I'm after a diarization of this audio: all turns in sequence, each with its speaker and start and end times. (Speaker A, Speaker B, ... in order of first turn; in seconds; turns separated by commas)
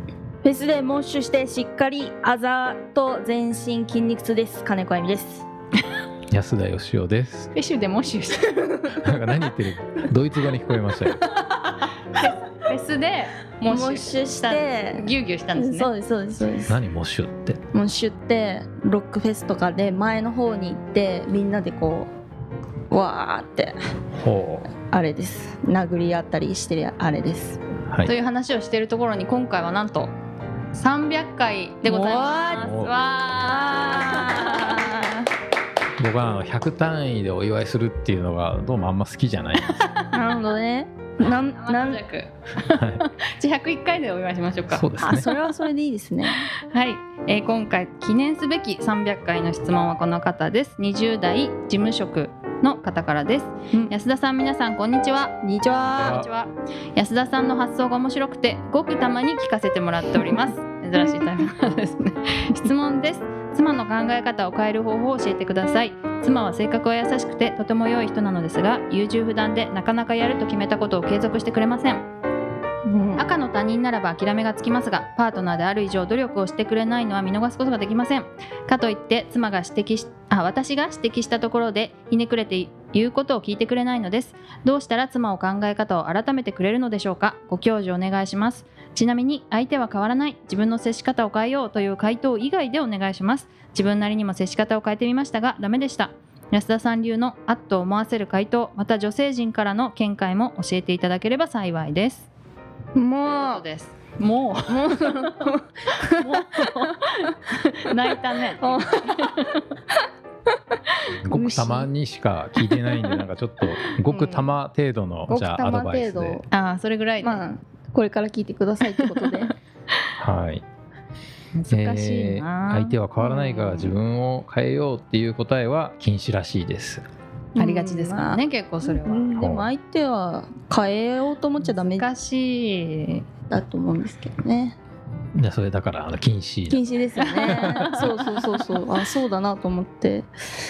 Speaker A: 0.4-5.5, Speaker B: 6.3-7.5, Speaker C: 7.5-8.9, Speaker A: 8.6-9.0, Speaker B: 9.0-11.2, Speaker C: 12.2-15.9, Speaker A: 13.7-16.8, Speaker B: 16.7-17.6, Speaker A: 17.7-22.1, Speaker A: 22.9-23.8, Speaker B: 24.2-24.7, Speaker A: 24.7-27.6, Speaker B: 27.9-28.1, Speaker C: 28.0-30.1, Speaker C: 30.7-35.0, Speaker A: 31.9-32.7, Speaker B: 32.6-32.9, Speaker A: 33.4-35.3, Speaker B: 36.0-39.9, Speaker C: 39.6-40.1, Speaker A: 40.1-42.0, Speaker C: 41.4-45.1, Speaker B: 42.7-43.0, Speaker B: 44.7-45.3, Speaker A: 45.0-46.5, Speaker C: 46.3-72.0, Speaker A: 55.4-55.9, Speaker B: 55.8-56.3, Speaker A: 72.9-73.3, Speaker C: 73.2-102.3, Speaker A: 103.0-103.6, Speaker C: 103.2-109.7, Speaker A: 104.7-107.2, Speaker A: 108.5-110.0, Speaker B: 111.2-116.4, Speaker A: 111.3-111.9, Speaker A: 114.1-114.5, Speaker A: 115.3-116.5, Speaker C: 116.5-117.5, Speaker A: 117.2-119.5, Speaker C: 118.8-119.5, Speaker B: 120.2-120.6, Speaker C: 121.5-124.0, Speaker B: 121.7-127.0, Speaker A: 127.5-132.1, Speaker C: 127.6-129.4, Speaker B: 129.3-129.7, Speaker C: 131.6-133.2, Speaker A: 133.5-134.8, Speaker B: 135.3-136.8, Speaker A: 136.7-140.3, Speaker C: 137.2-138.8, Speaker B: 137.5-137.9